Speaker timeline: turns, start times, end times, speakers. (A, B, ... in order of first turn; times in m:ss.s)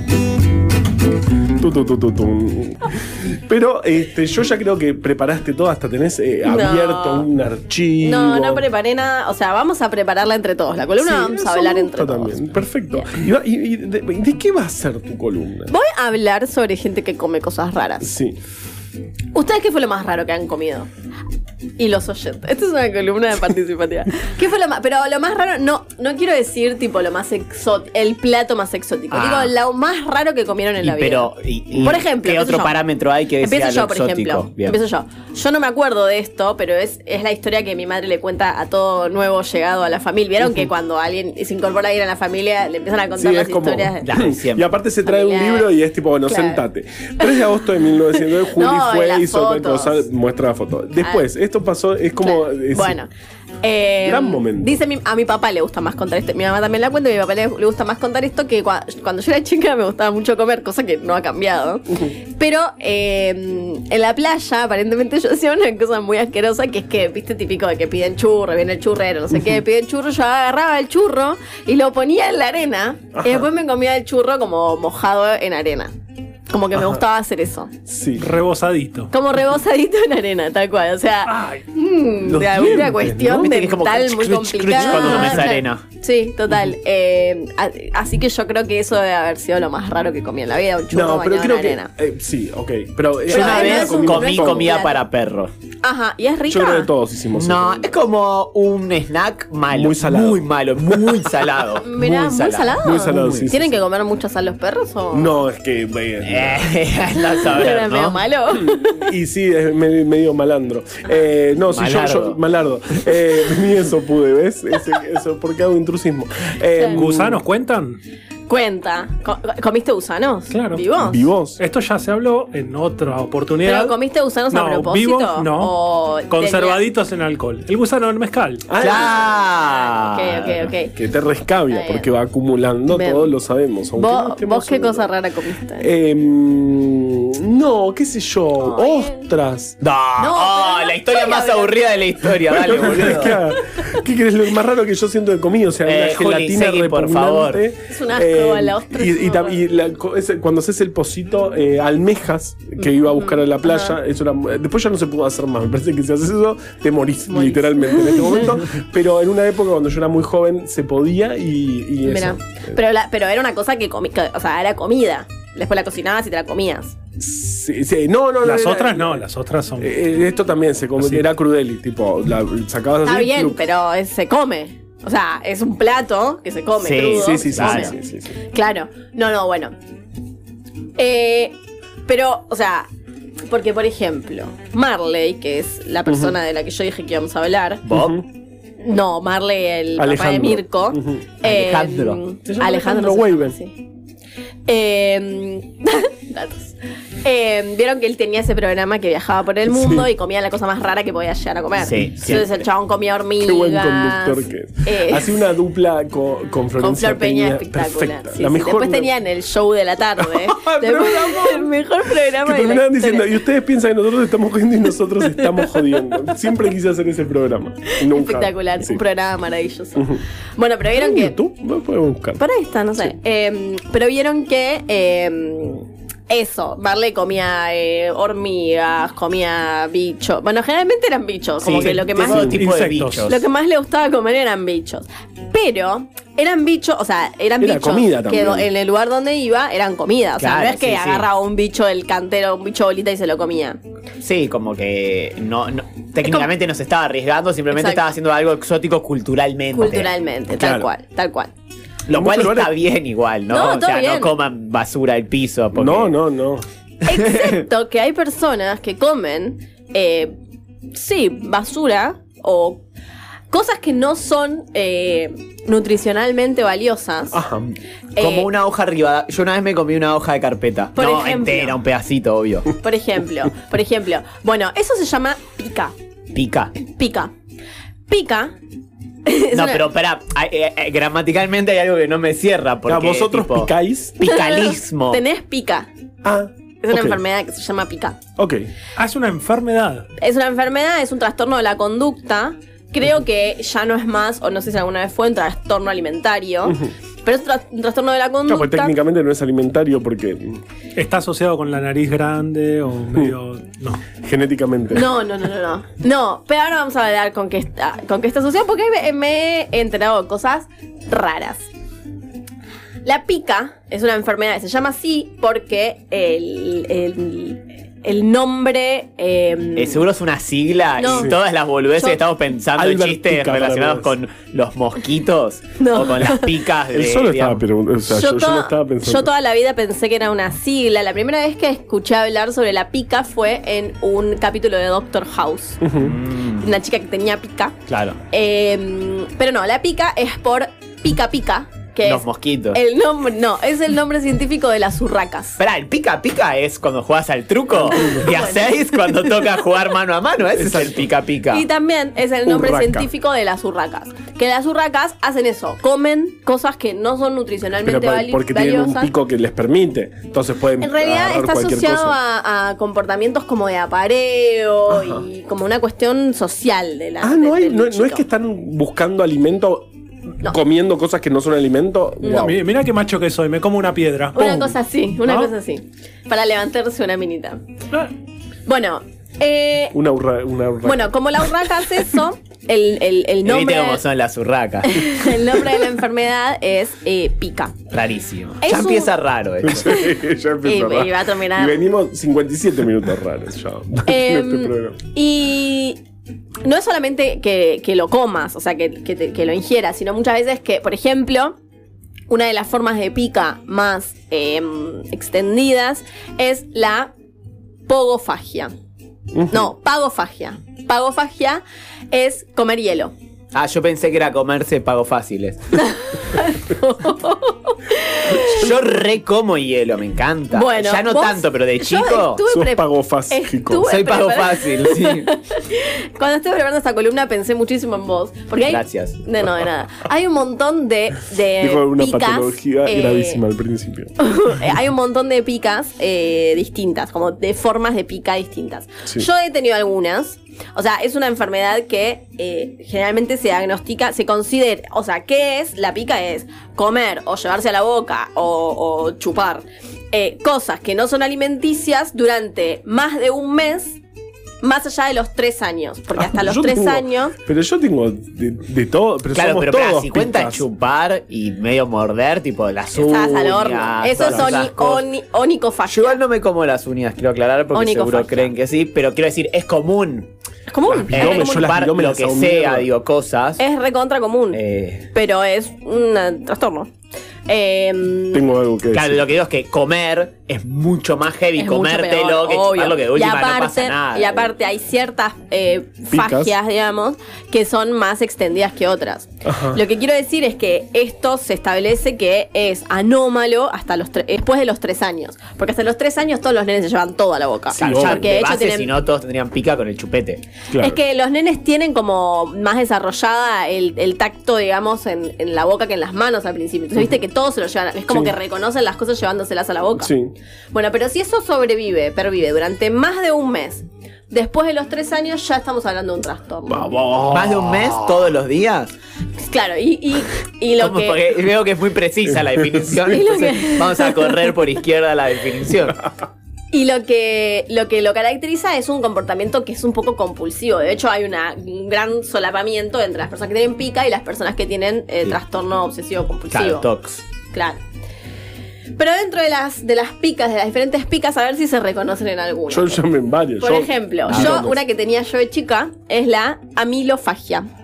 0:01.6-0:08.6 A
0:06.5-0:07.3 B
0:08.0-0:12.4 B
0:11.0-0:15.7 A
0:15.7-0:18.1 B
0:18.0-0:18.4 A
0:19.3-0:20.9 B
0:21.8-0:32.8 B
0:29.1-0:29.5 C
0:30.8-0:34.8 C
0:33.4-0:44.2 B
0:43.2-0:53.0 A
0:44.0-0:44.7 C
0:45.0-0:45.7 B
0:46.3-0:46.6 B
0:48.5-0:50.1 B
0:51.0-0:51.3 B
0:52.2-0:53.1 B
0:53.6-1:15.9 B
0:54.0-0:54.8 A
1:13.2-1:13.4 A
1:16.5-1:17.7 B
1:17.9-1:18.3 A
1:18.2-1:19.1 D
1:19.1-1:31.9 B
1:21.3-1:21.6 D
1:22.3-1:25.8 C
1:22.6-1:23.6 A
1:25.0-1:25.4 A
1:30.9-1:34.8 A
1:33.3-1:35.0 B
1:33.3-1:35.5 C
1:35.8-1:36.9 B
1:36.5-1:37.9 A
1:37.4-1:43.5 C
1:39.7-1:41.4 A
1:41.8-1:45.3 B
1:42.8-1:43.8 A
1:45.1-1:46.7 A
1:46.2-1:48.2 C
1:47.4-1:49.1 B
1:48.5-1:57.4 A
1:51.7-1:52.4 C
1:56.8-1:57.0 B
1:57.0-1:58.0 D
1:58.5-2:01.2 B
2:00.5-2:00.8 D
2:01.0-2:01.6 A
2:01.6-2:04.0 D
2:03.6-2:06.8 B
2:04.5-2:05.8 D
2:06.3-2:08.6 D
2:08.7-2:09.2 A
2:08.8-2:10.7 C
2:08.8-2:11.0 B
2:11.0-2:15.1 A
2:11.7-2:12.1 B
2:12.9-2:13.3 B
2:14.0-2:15.9 B
2:15.8-2:19.8 A
2:18.6-2:19.3 B
2:19.8-2:23.4 C
2:20.2-2:22.0 B
2:22.5-2:42.8 A
2:22.7-2:23.0 B
2:25.8-2:27.6 C
2:27.9-2:29.6 B
2:32.8-2:34.0 B
2:37.3-2:38.6 B
2:42.0-2:47.0 B
2:47.2-2:49.3 A
2:48.4-2:49.9 D
2:49.8-2:53.6 A
2:53.0-2:57.9 B
2:56.8-2:57.9 C
2:56.9-2:58.4 A
2:58.5-2:59.8 B
3:01.0-3:01.6 B
3:02.1-3:02.9 B
3:03.5-3:07.8 B
3:06.1-3:06.3 A
3:07.8-3:08.2 C
3:07.9-3:08.2 A
3:08.8-3:13.8 B
3:10.0-3:11.2 A
3:11.4-3:12.2 C
3:12.5-3:13.6 A
3:14.7-3:25.4 B
3:19.7-3:20.1 A
3:21.8-3:22.6 C
3:23.4-3:29.1 A
3:26.8-3:33.4 B
3:30.2-3:31.7 A
3:32.3-3:39.0 A
3:37.9-3:41.4 B
3:40.9-3:42.4 A
3:42.4-3:52.6 B
3:51.6-3:53.4 C
3:52.2-3:52.6 A
3:52.6-3:53.3 D
3:53.3-4:03.8 B
3:57.6-3:58.7 A
4:00.4-4:01.3 C
4:04.2-4:10.1 C
4:07.7-4:08.1 B
4:09.7-4:11.5 B
4:10.5-4:10.9 A
4:12.1-4:16.2 C
4:12.1-4:12.7 A
4:13.5-4:14.3 B
4:15.8-4:16.6 A
4:17.0-4:20.3 B
4:17.1-4:17.6 C
4:20.9-4:22.8 B
4:23.5-4:27.4 B
4:27.3-4:27.7 A
4:28.2-4:28.5 B
4:28.2-4:32.7 C
4:31.0-4:31.8 B
4:32.8-4:35.9 B
4:36.3-4:36.7 C
4:36.8-4:37.3 B
4:38.1-4:38.5 B
4:39.2-4:39.8 B
4:39.5-4:45.2 C
4:42.9-4:44.3 A
4:44.2-4:45.9 B
4:46.2-4:47.2 A
4:46.8-4:48.2 B
4:48.4-4:48.7 A
4:49.0-4:50.1 D
4:50.2-4:59.0 B
4:58.5-5:00.6 A
5:01.0-5:04.1 D
5:04.2-5:05.1 A
5:04.9-5:11.7 B
5:13.0-5:20.1 B
5:19.8-5:27.6 C
5:21.0-5:21.4 B
5:21.1-5:21.4 A
5:21.9-5:22.2 B
5:22.8-5:24.1 A
5:25.8-5:26.5 B
5:26.9-5:29.3 A
5:28.1-5:35.9 B
5:35.8-5:36.2 A
5:36.0-5:36.7 C
5:36.6-5:37.8 B
5:37.9-5:38.2 C
5:38.3-5:45.6 B
5:42.0-5:42.8 C
5:45.6-5:51.7 C
5:47.9-5:48.2 A
5:47.9-5:49.4 B
5:50.6-5:51.0 A
5:51.5-5:59.1 B
5:52.5-5:53.1 A
5:57.8-6:02.2 A
6:00.8-6:08.2 B
6:04.9-6:05.3 A
6:07.2-6:09.9 A
6:10.4-6:12.6 A
6:12.2-6:12.5 B
6:12.2-6:15.5 D
6:14.4-6:17.6 B
6:18.7-6:20.0 B
6:19.9-6:21.1 A
6:20.8-6:24.0 B
6:23.4-6:25.3 C
6:24.9-6:27.8 B
6:27.9-6:29.9 C
6:28.6-6:29.2 B
6:29.6-6:35.0 A
6:30.6-6:31.9 B
6:34.0-6:36.0 B
6:36.6-6:41.6 B
6:42.3-6:47.1 B
6:47.9-6:48.7 B
6:49.4-6:49.6 A
6:49.5-6:53.1 B
6:53.5-6:55.8 C
6:55.8-6:58.7 B
6:58.3-7:02.4 C
7:00.5-7:13.4 B
7:02.5-7:03.9 A
7:03.9-7:05.3 C
7:08.7-7:09.2 C
7:11.6-7:14.2 A
7:14.2-7:34.0 B
7:34.6-7:37.4 B
7:36.2-7:40.6 A
7:39.3-7:45.0 C
7:42.9-7:46.2 B
7:44.2-7:44.5 A
7:45.9-7:50.3 C
7:47.7-7:48.5 B
7:50.7-7:51.6 B
7:50.9-7:52.9 A
7:51.1-7:53.6 C
7:53.6-7:54.6 B
7:54.5-7:55.1 C
7:55.1-7:56.9 B
7:57.5-7:58.5 B
7:58.3-7:59.2 A
7:58.9-8:04.5 C
8:01.6-8:18.9 B
8:06.1-8:06.5 A
8:09.4-8:09.8 A
8:17.8-8:18.3 A
8:17.8-8:20.4 C
8:20.7-8:21.0 A
8:20.8-8:30.1 B
8:30.0-8:30.3 A
8:30.7-8:37.0 B
8:36.7-8:38.3 A
8:37.3-8:38.9 C
8:39.4-8:41.2 B
8:40.8-8:46.0 C
8:43.1-8:44.4 B
8:46.7-8:56.9 B
8:56.5-8:57.2 C
8:57.5-8:57.8 B
8:59.0-9:03.0 B
9:02.7-9:04.8 A
9:03.6-9:07.7 B
9:04.3-9:04.6 C